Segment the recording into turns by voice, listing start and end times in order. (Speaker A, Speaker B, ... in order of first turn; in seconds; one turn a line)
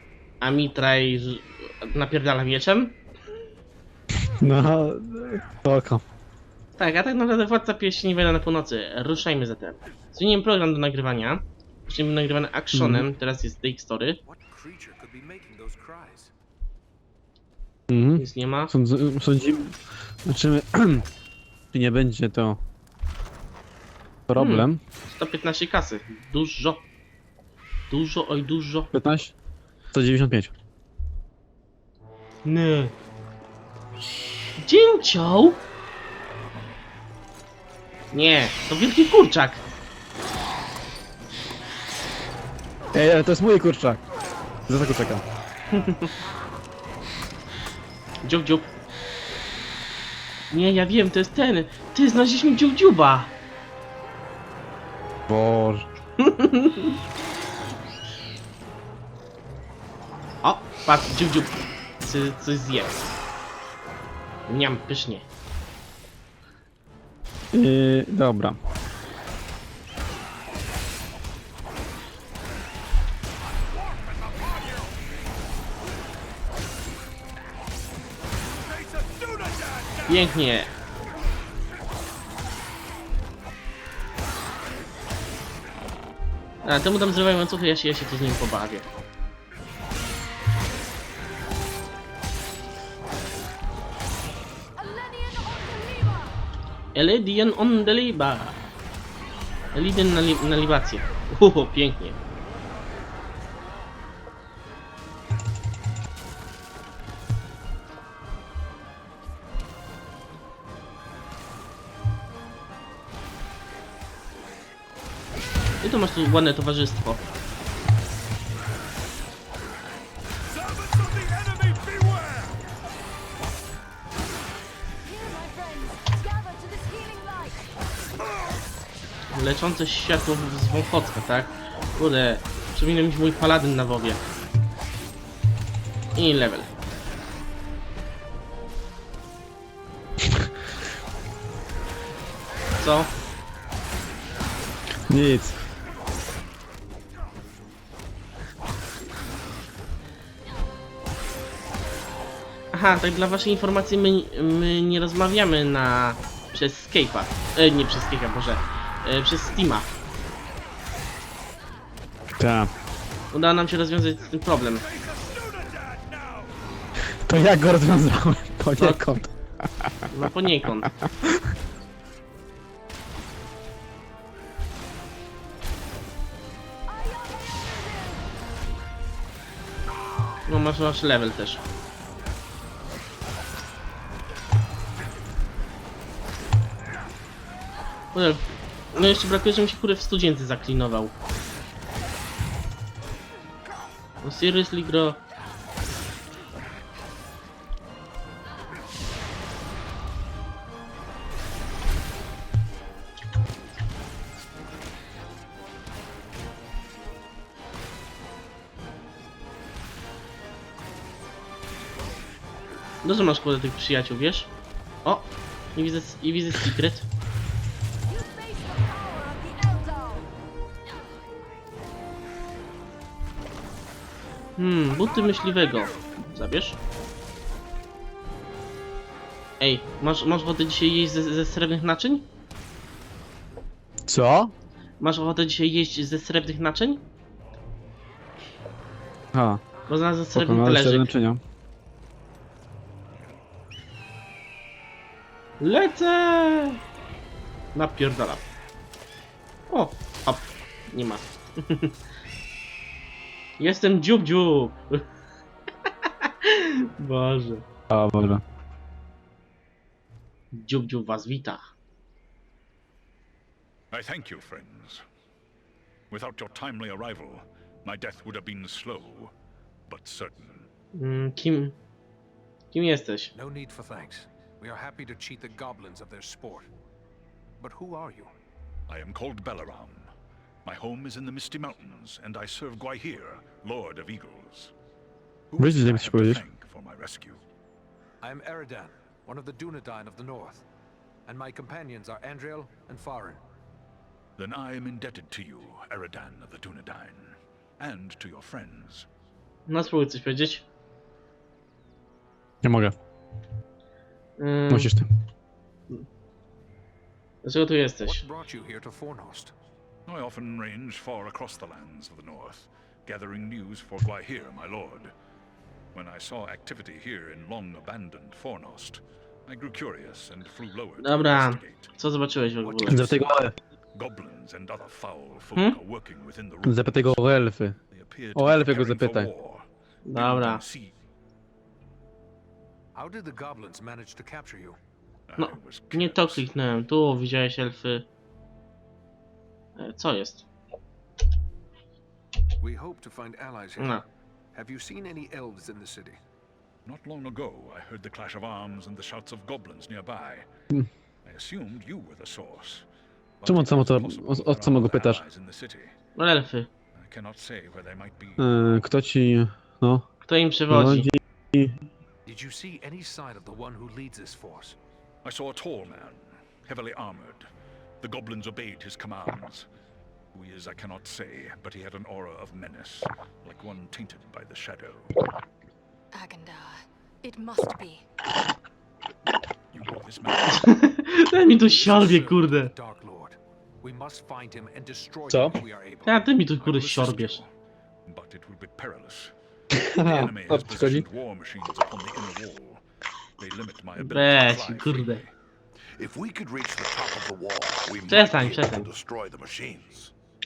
Speaker A: 0.4-3.0
Speaker B: 4.2-6.0
Speaker A: 6.8-14.2
Speaker B: 12.7-13.1
Speaker C: 14.2-16.3
Speaker B: 17.9-21.1
Speaker A: 18.2-18.7
Speaker B: 21.7-22.6
Speaker B: 24.3-24.8
Speaker A: 24.4-26.9
Speaker A: 27.9-28.9
Speaker B: 28.9-29.3
Speaker B: 29.9-30.5
Speaker A: 32.5-33.0
Speaker A: 34.6-35.6
Speaker A: 38.1-39.6
Speaker B: 42.9-44.0
Speaker B: 44.7-45.2
Speaker A: 45.7-46.1
Speaker A: 48.2-48.7
Speaker A: 50.5-53.3
Speaker B: 55.3-55.9
Speaker A: 56.2-57.0
Speaker A: 60.4-63.1
Speaker A: 64.5-65.3
Speaker B: 67.5-68.6
Speaker D: 73.6-75.0
Speaker D: 78.9-79.9
Speaker A: 80.1-80.7
Speaker A: 86.6-88.9
Speaker E: 94.8-96.3
Speaker A: 97.0-98.6
Speaker A: 99.7-102.2
Speaker A: 115.8-117.2
Speaker F: 120.6-122.5
Speaker E: 125.0-127.7
Speaker A: 129.3-134.2
Speaker A: 136.2-136.7
Speaker A: 142.8-143.1
Speaker B: 145.1-145.6
Speaker A: 152.7-159.9
Speaker B: 162.4-162.7
Speaker A: 163.3-164.9
Speaker F: 165.0-166.4
Speaker B: 167.2-170.3
Speaker A: 168.8-169.1
Speaker A: 170.1-170.9
Speaker B: 170.8-171.5
Speaker E: 176.9-178.3
Speaker A: 180.5-181.6
Speaker A: 188.1-191.2
Speaker A: 194.2-195.2
Speaker A: 213.0-214.5
Speaker A: 215.1-217.1
Speaker E: 218.1-220.3
Speaker A: 224.6-226.8
Speaker A: 229.6-232.3
Speaker B: 234.1-234.5
Speaker A: 235.0-237.0
Speaker B: 239.3-239.6
Speaker A: 239.9-241.2
Speaker B: 240.3-241.4
Speaker A: 245.6-246.8
Speaker A: 247.7-248.4
Speaker A: 249.7-252.0
Speaker A: 253.6-255.1
Speaker A: 255.9-257.6
Speaker B: 257.9-258.4
Speaker A: 260.5-261.6
Speaker F: 263.9-265.0
Speaker F: 266.1-269.3
Speaker F: 269.9-270.7
Speaker A: 270.9-271.8
Speaker A: 272.7-273.3
Speaker C: 273.4-276.7
Speaker C: 277.6-278.3
Speaker F: 278.9-280.1
Speaker F: 280.6-284.7
Speaker F: 285.5-287.4
Speaker B: 285.6-286.4
Speaker C: 288.2-290.6
Speaker C: 291.3-293.4
Speaker F: 294.4-299.1
Speaker A: 299.7-300.6
Speaker B: 302.6-302.9
Speaker A: 304.4-304.9
Speaker B: 304.7-305.1
Speaker A: 307.4-308.2
Speaker C: 308.0-309.5
Speaker F: 310.1-315.1
Speaker F: 315.9-321.9
Speaker A: 321.0-323.1
Speaker C: 322.7-323.1
Speaker B: 322.9-323.6
Speaker F: 323.9-327.2
Speaker B: 326.6-327.8
Speaker F: 327.9-330.9
Speaker B: 328.4-329.3
Speaker A: 330.1-330.6
Speaker C: 332.9-334.8
Speaker F: 335.3-336.5
Speaker A: 335.4-338.1
Speaker A: 339.8-340.5
Speaker C: 342.6-344.0
Speaker A: 343.8-344.1
Speaker C: 344.5-346.2
Speaker F: 346.9-350.5
Speaker F: 351.2-352.9
Speaker F: 353.4-355.9
Speaker B: 353.5-355.2
Speaker A: 356.1-356.7
Speaker F: 357.0-358.7
Speaker B: 358.4-360.1
Speaker A: 360.3-361.1
Speaker B: 360.7-361.8
Speaker C: 362.2-364.8
Speaker F: 365.2-367.5
Speaker F: 368.0-369.7
Speaker F: 370.3-375.1
Speaker E: 376.1-378.1
Speaker F: 379.7-380.7
Speaker A: 380.5-382.7
Speaker C: 381.5-386.2
Speaker B: 385.3-385.6
Speaker A: 386.1-387.4
Speaker F: 386.6-387.5
Speaker F: 388.1-389.3
Speaker B: 389.7-391.1
Speaker F: 390.0-392.8
Speaker F: 393.4-395.3
Speaker A: 394.0-395.2
Speaker D: 396.0-400.1
Speaker A: 398.1-398.9